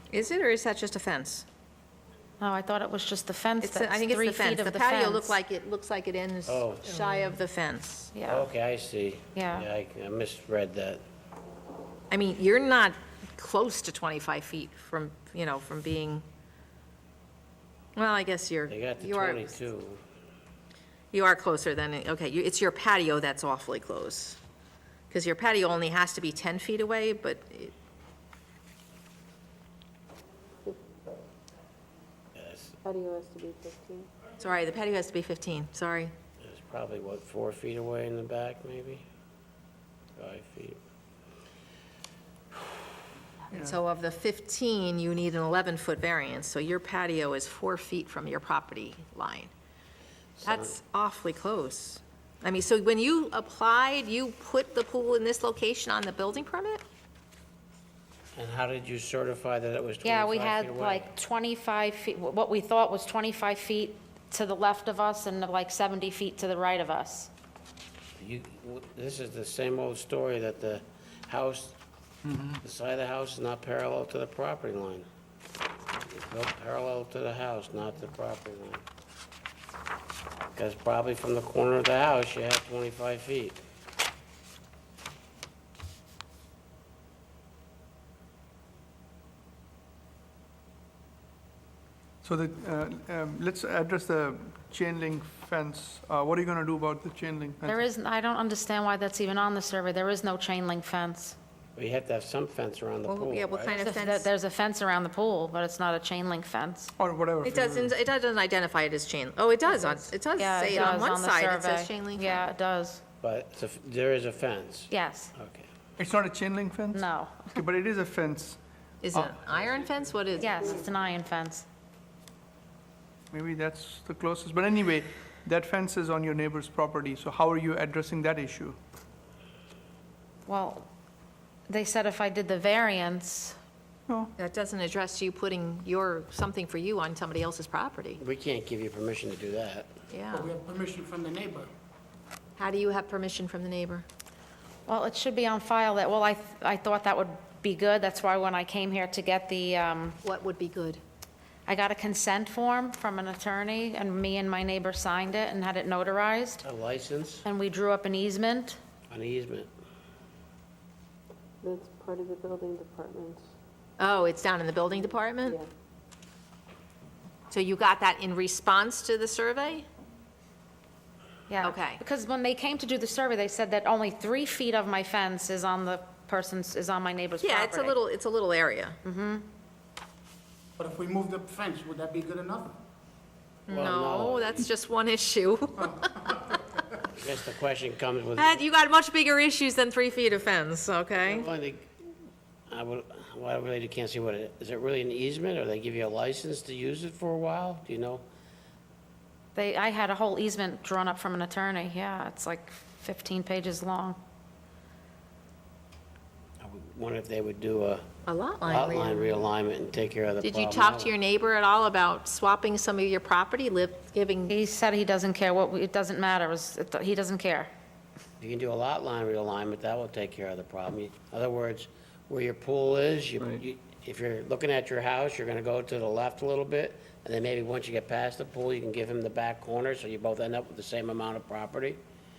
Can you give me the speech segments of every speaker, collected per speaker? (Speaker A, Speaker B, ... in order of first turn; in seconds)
Speaker A: 0.1-1.5, 3.6-8.1, 12.1-16.2, 18.0-19.6, 21.1-24.4, 25.1-27.7, 34.4-36.1, 43.5-49.5, 50.4-56.8, 103.1-104.3, 107.4-112.5, 119.0-120.6, 134.4-138.2, 140.1-140.5, 142.6-144.1, 150.2-151.0, 164.0-165.6, 167.5-169.9, 171.6-172.0, 177.4-179.0, 183.7-186.5, 188.4-191.5, 208.3-209.5, 210.4-214.5
Speaker B: 2.4-5.4, 8.1-8.5, 9.3-9.7, 60.0-67.3, 97.7-101.4, 103.8-106.9, 109.7-113.0, 114.9-115.3, 116.9-117.6, 120.4-121.7, 130.5-130.9, 131.7-133.6, 144.9-150.2, 151.7-156.7, 157.4-158.8, 171.5-178.0, 179.0-179.5, 199.6-204.2, 214.5-217.7
Speaker C: 6.5-7.0, 8.3-11.0, 18.7-20.0, 32.4-32.8, 36.4-39.0, 40.2-40.8, 50.4-50.7, 58.4-61.1, 68.2-71.8, 72.6-75.0, 76.1-78.8, 80.5-83.6, 101.8-103.8, 113.2-115.7, 138.2-139.9, 156.6-157.5, 159.1-159.7, 183.7-184.7, 187.1-188.6, 191.2-191.9, 192.7-198.2, 206.6-208.1, 208.7-211.1, 218.4-232.0
Speaker D: 32.8-34.1, 161.6-163.4
Speaker E: 72.3-72.6, 92.2-97.8, 107.0-108.0, 116.0-118.6, 119.1-119.4, 123.3-128.8
Speaker F: 140.3-141.7, 180.8-182.8